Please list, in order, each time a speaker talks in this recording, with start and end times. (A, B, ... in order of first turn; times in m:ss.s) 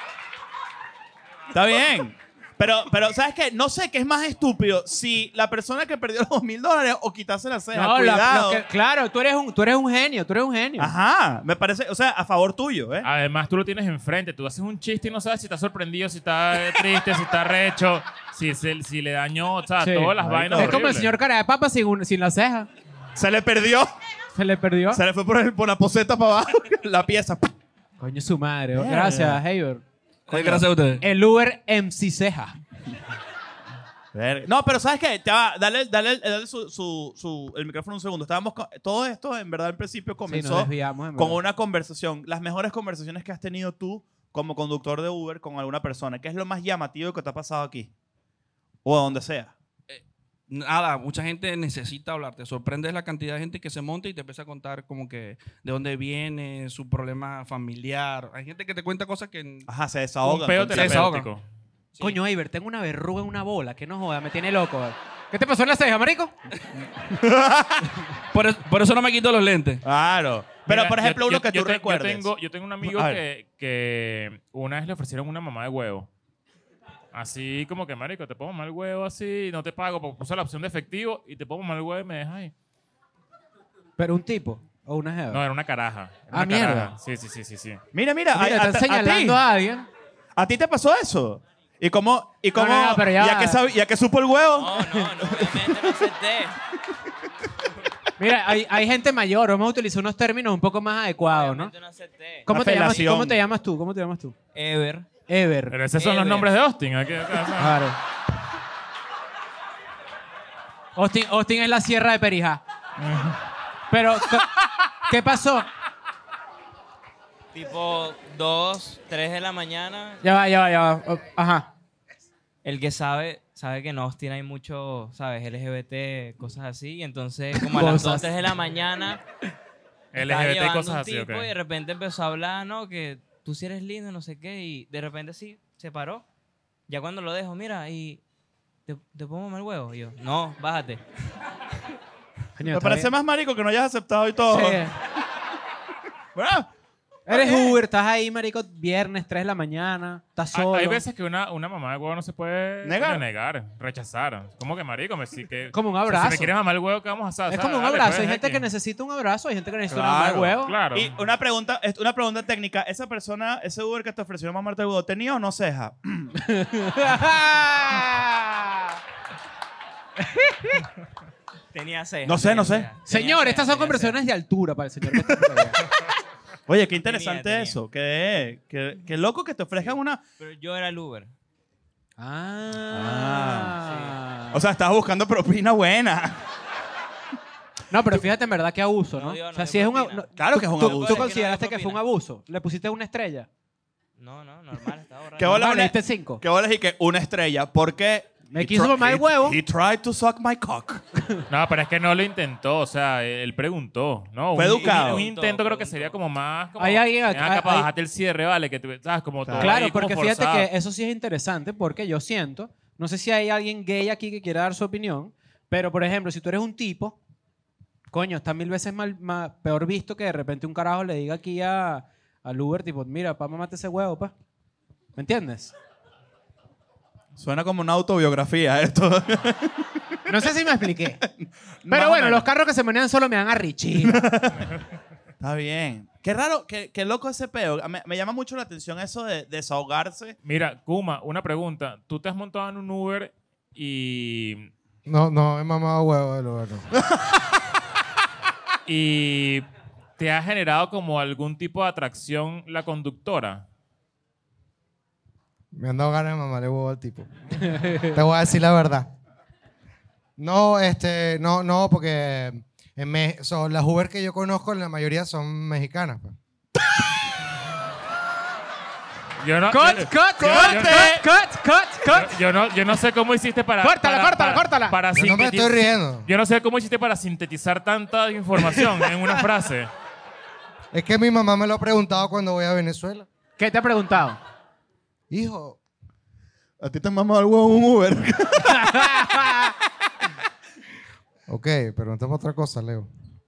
0:01.5-0:08.6 A
0:07.7-0:10.9 B
0:10.8-0:13.1 A
0:13.0-0:21.1 C
0:19.8-0:22.7 B
0:20.3-0:20.8 A
0:23.1-0:23.9 A
0:24.3-0:25.0 B
0:24.9-0:27.5 A
0:28.0-0:32.6 B
0:28.7-0:29.4 A
0:30.3-0:31.0 D
0:34.1-0:47.9 A
0:40.3-0:41.4 B
0:48.8-0:49.5 A
0:49.9-0:59.7 D
0:59.6-1:01.2 A
1:00.2-1:01.4 C
1:00.7-1:01.2 D
1:02.0-1:06.3 B
1:07.1-1:07.9 A
1:08.3-1:09.8 D
1:09.8-1:12.3 A
1:10.6-1:16.1 C
1:12.8-1:13.2 A
1:17.1-1:22.5 C
1:24.0-1:25.4 B
1:25.3-1:27.8 C
1:26.3-1:26.9 B
1:27.9-1:29.4 A
1:28.3-1:29.9 B
1:30.4-1:34.9 A
1:32.5-1:33.6 B
1:34.6-1:36.6 E
1:35.2-1:35.6 B
1:38.2-1:41.7 B
1:41.2-1:42.5 E
1:42.4-1:44.4 B
1:42.5-1:43.4 A
1:44.5-1:45.1 E
1:45.3-1:45.8 B
1:45.7-1:47.8 C
1:46.0-1:46.5 E
1:47.6-1:48.0 B
1:51.0-1:52.6 B
1:53.0-1:53.4 C
1:53.9-1:55.7 B
1:57.5-2:00.2 E
2:00.2-2:01.7 B
2:02.6-2:09.2 E
2:07.6-2:08.3 B
2:10.1-2:11.5 C
2:10.2-2:16.2 E
2:16.9-2:18.2 E
2:18.9-2:21.0 E
2:22.6-2:23.1 B
2:22.7-2:24.8 A
2:24.5-2:24.9 B
2:26.3-2:26.7 A
2:27.3-2:31.0 B
2:27.3-2:27.8 A
2:30.5-2:38.6 C
2:32.8-2:33.2 A
2:35.7-2:36.5 B
2:37.5-2:40.7 B
2:39.9-2:46.3 A
2:40.6-2:41.1 C
2:46.4-2:48.9 B
2:50.2-2:50.9 B
2:51.7-2:54.2 E
2:52.2-2:52.9 A
2:53.1-2:55.8 B
2:56.7-3:00.2 A
2:57.0-2:57.8 E
2:59.8-3:01.3 E
3:02.2-3:04.6 B
3:02.9-3:03.8 A
3:03.8-3:04.2 E
3:04.5-3:06.4 A
3:07.9-3:13.5 B
3:09.2-3:12.0 E
3:10.3-3:11.3 A
3:14.2-3:15.7 E
3:15.4-3:21.0 A
3:15.4-3:16.4 B
3:18.5-3:19.6 B
3:21.5-3:30.7 C
3:24.5-3:25.3 A
3:24.6-3:26.2 E
3:26.8-3:27.9 B
3:29.4-3:29.8 A
3:29.6-3:37.2 B
3:38.1-3:44.3 B
3:45.2-3:45.7 B
3:47.4-3:50.3 A
3:50.3-3:51.2 B
3:51.4-3:52.5 A
3:51.9-3:54.3 B
3:54.0-3:54.8 A
3:55.4-4:00.4 A
4:00.4-4:04.7 C
4:05.1-4:06.9 F
4:08.8-4:09.6 C
4:10.2-4:13.6 C
4:15.7-4:19.1 F
4:17.6-4:18.1 B
4:20.4-4:26.3 F
4:29.4-4:31.2 C
4:29.7-4:32.4 B
4:30.4-4:31.2 A
4:32.1-4:39.9 C
4:33.8-4:35.0 B
4:35.2-4:36.3 F
4:40.9-4:43.2 F
4:43.6-4:44.4 B
4:45.3-4:45.8 F
4:46.8-4:49.3 A
4:48.6-4:49.7 B
4:51.5-4:53.1 F